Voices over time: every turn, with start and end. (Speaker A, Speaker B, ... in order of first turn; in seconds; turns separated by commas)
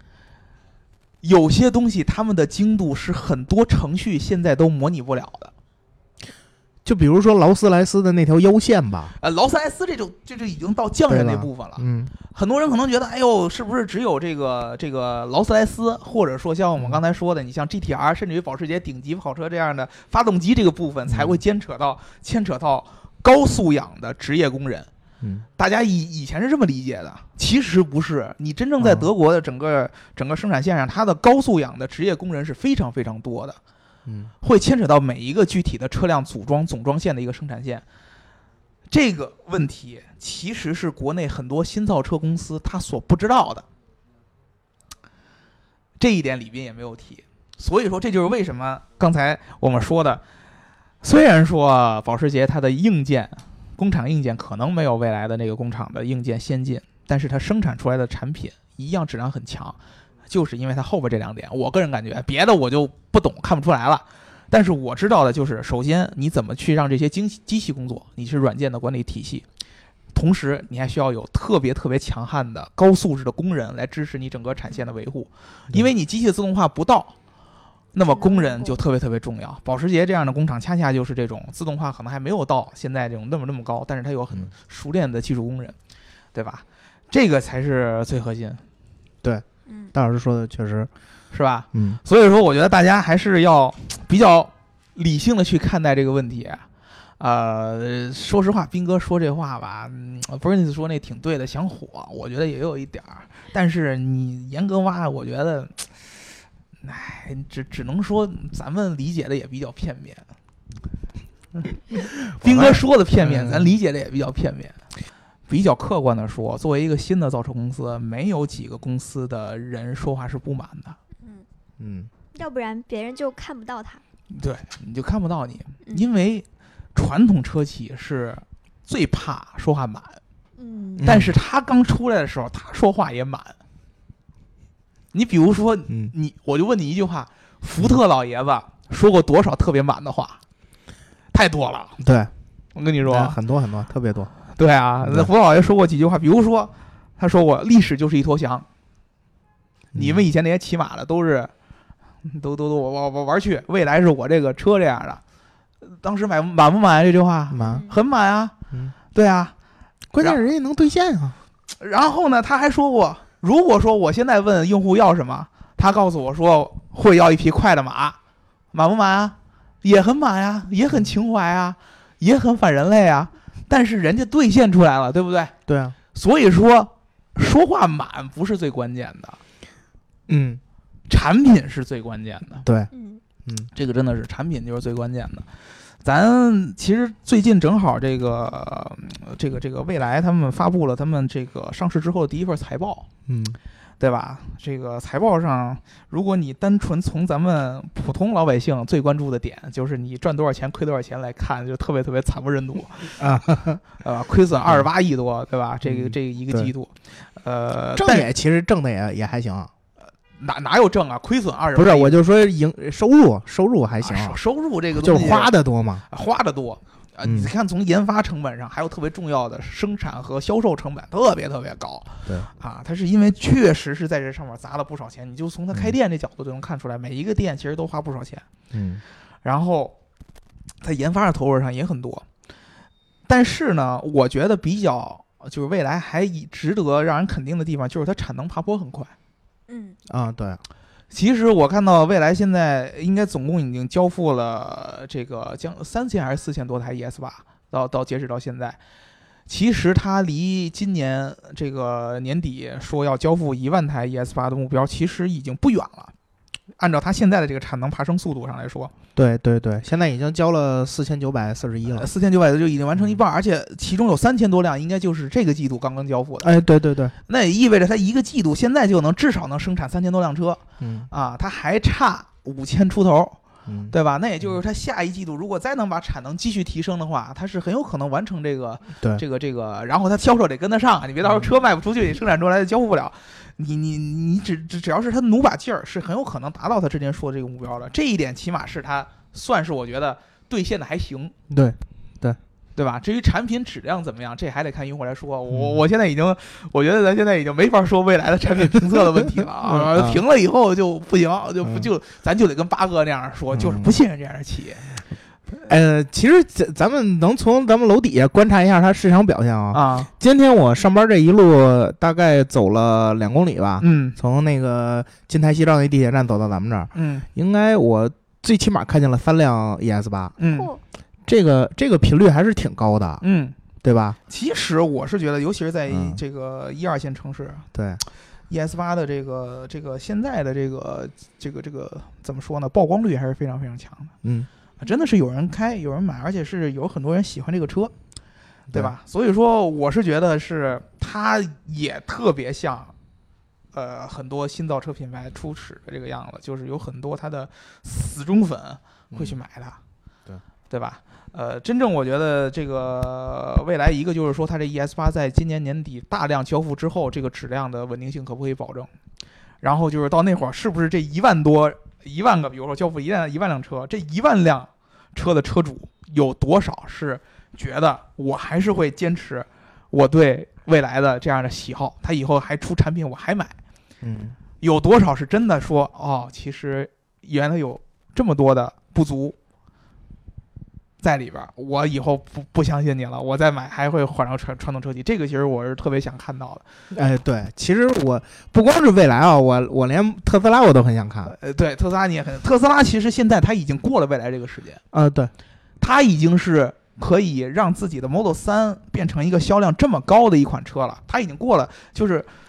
Speaker A: 1.2-5.5, Speaker B: 6.8-9.1, Speaker A: 9.2-24.9, Speaker B: 11.1-12.1, Speaker B: 21.1-21.4, Speaker A: 25.6-33.6, Speaker B: 28.8-29.1, Speaker B: 34.0-34.3, Speaker A: 34.4-37.8, Speaker A: 38.9-43.6, Speaker A: 46.0-50.2, Speaker A: 51.0-59.8, Speaker A: 60.3-69.4, Speaker A: 70.1-77.1, Speaker A: 77.9-85.7, Speaker C: 78.1-78.8, Speaker A: 86.3-88.6, Speaker B: 89.2-90.9, Speaker C: 89.7-89.9, Speaker A: 91.3-96.6, Speaker B: 91.7-92.0, Speaker A: 97.2-105.8, Speaker A: 106.8-110.2, Speaker A: 112.3-114.8, Speaker B: 112.4-113.7, Speaker A: 115.5-121.0, Speaker B: 121.8-122.1, Speaker C: 122.3-124.0, Speaker A: 124.3-130.2, Speaker C: 130.6-131.1, Speaker B: 131.0-131.3, Speaker A: 131.0-133.6, Speaker A: 135.1-140.4, Speaker A: 141.3-141.9, Speaker B: 142.0-142.3, Speaker A: 142.7-143.4, Speaker B: 143.1-144.3, Speaker A: 144.6-148.7, Speaker B: 145.0-145.3, Speaker B: 149.9-150.2, Speaker A: 149.9-151.5, Speaker A: 152.2-155.2, Speaker A: 155.8-158.5, Speaker B: 157.5-157.8, Speaker C: 157.7-157.9, Speaker A: 159.1-159.5, Speaker B: 160.1-161.3, Speaker A: 161.8-168.2, Speaker A: 168.7-175.5, Speaker B: 175.7-175.9, Speaker A: 176.1-179.4, Speaker B: 180.3-180.6, Speaker A: 181.1-182.7, Speaker B: 182.6-182.9, Speaker C: 182.9-183.2, Speaker A: 183.7-185.5, Speaker A: 186.0-193.1, Speaker B: 193.3-193.6, Speaker A: 194.0-203.2, Speaker B: 203.2-203.8, Speaker A: 204.0-208.3, Speaker B: 205.9-206.7, Speaker B: 207.9-209.7, Speaker A: 210.4-212.2, Speaker B: 211.7-214.4, Speaker A: 214.0-215.5, Speaker B: 214.9-216.0, Speaker A: 216.1-228.4, Speaker B: 217.2-217.5, Speaker B: 228.7-229.0, Speaker A: 229.4-229.9, Speaker A: 230.8-232.2, Speaker A: 233.3-239.1, Speaker C: 239.7-240.0, Speaker B: 240.1-240.6, Speaker A: 241.1-248.8, Speaker A: 249.5-256.1, Speaker A: 256.8-258.9, Speaker B: 259.1-262.1, Speaker A: 261.9-266.5, Speaker B: 266.4-267.1, Speaker A: 267.2-273.4, Speaker B: 270.8-271.1, Speaker B: 273.7-273.9, Speaker A: 273.9-291.3, Speaker B: 291.5-292.4, Speaker A: 292.8-304.9, Speaker B: 295.5-295.8, Speaker B: 299.6-300.2, Speaker B: 303.5-303.9, Speaker B: 305.6-320.3, Speaker A: 309.7-310.1, Speaker A: 313.8-314.2, Speaker A: 316.9-317.3, Speaker A: 320.4-320.7, Speaker C: 320.5-320.8, Speaker B: 321.3-323.2, Speaker A: 323.2-323.6, Speaker B: 323.8-324.2, Speaker A: 324.3-327.6, Speaker B: 325.9-326.2, Speaker B: 327.7-328.0, Speaker A: 328.5-334.1, Speaker B: 334.2-334.5, Speaker C: 334.8-335.1, Speaker A: 334.8-337.9, Speaker A: 338.7-342.9, Speaker A: 343.7-349.8, Speaker A: 350.7-358.9, Speaker A: 359.6-373.5, Speaker B: 374.0-374.4, Speaker A: 374.6-379.4, Speaker A: 381.0-386.6, Speaker B: 386.9-391.3, Speaker A: 391.3-394.8, Speaker B: 394.9-395.3, Speaker A: 395.8-402.3